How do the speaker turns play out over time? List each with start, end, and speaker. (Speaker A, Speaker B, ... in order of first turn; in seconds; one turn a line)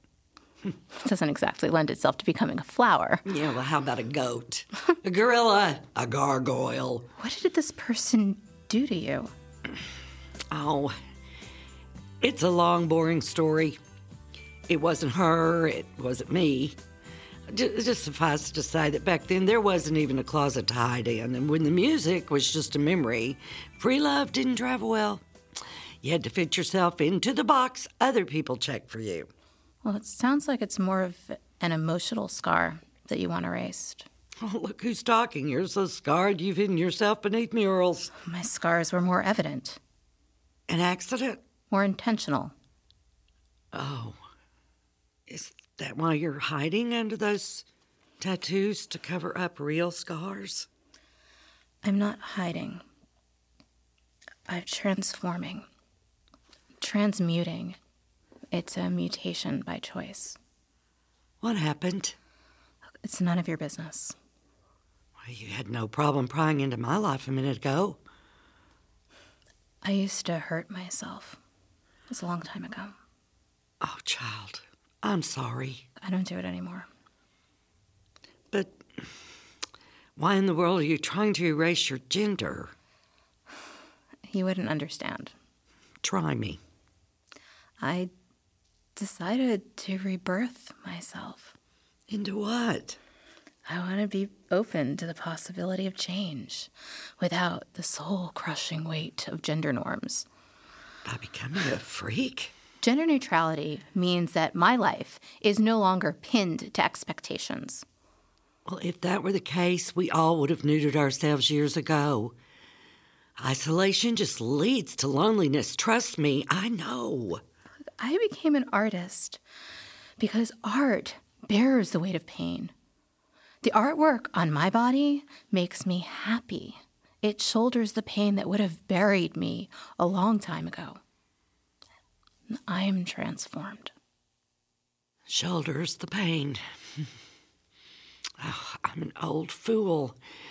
Speaker A: 1.0-3.2
Speaker B: 3.3-7.1
Speaker A: 7.2-9.3
Speaker B: 10.5-10.9
Speaker B: 12.2-13.8
Speaker B: 14.7-16.8
Speaker B: 17.5-25.2
Speaker B: 26.0-29.3
Speaker A: 29.8-34.1
Speaker B: 34.4-38.1
Speaker A: 38.2-39.8
Speaker B: 40.7-41.4
Speaker A: 41.7-42.5
Speaker B: 43.7-44.2
Speaker B: 45.3-47.6
Speaker B: 48.2-50.7
Speaker A: 51.8-52.8
Speaker A: 54.5-55.7
Speaker A: 56.8-57.8
Speaker A: 58.5-60.4
Speaker B: 61.4-62.2
Speaker A: 63.0-64.2
Speaker B: 65.2-68.0
Speaker A: 69.8-71.4
Speaker A: 72.1-73.0
Speaker B: 73.8-75.8
Speaker A: 76.0-76.9
Speaker B: 78.5-78.8
Speaker B: 80.2-82.7
Speaker A: 84.3-85.3
Speaker B: 86.0-86.6
Speaker A: 87.8-88.1
Speaker A: 89.0-91.5
Speaker B: 92.1-93.0
Speaker A: 93.7-100.3
Speaker B: 101.1-102.5
Speaker A: 102.8-107.8
Speaker B: 108.7-112.3
Speaker B: 113.4-117.4
Speaker A: 118.0-119.4
Speaker A: 120.2-122.7
Speaker A: 123.6-131.0
Speaker A: 132.5-133.9
Speaker B: 135.3-136.6
Speaker B: 138.4-140.2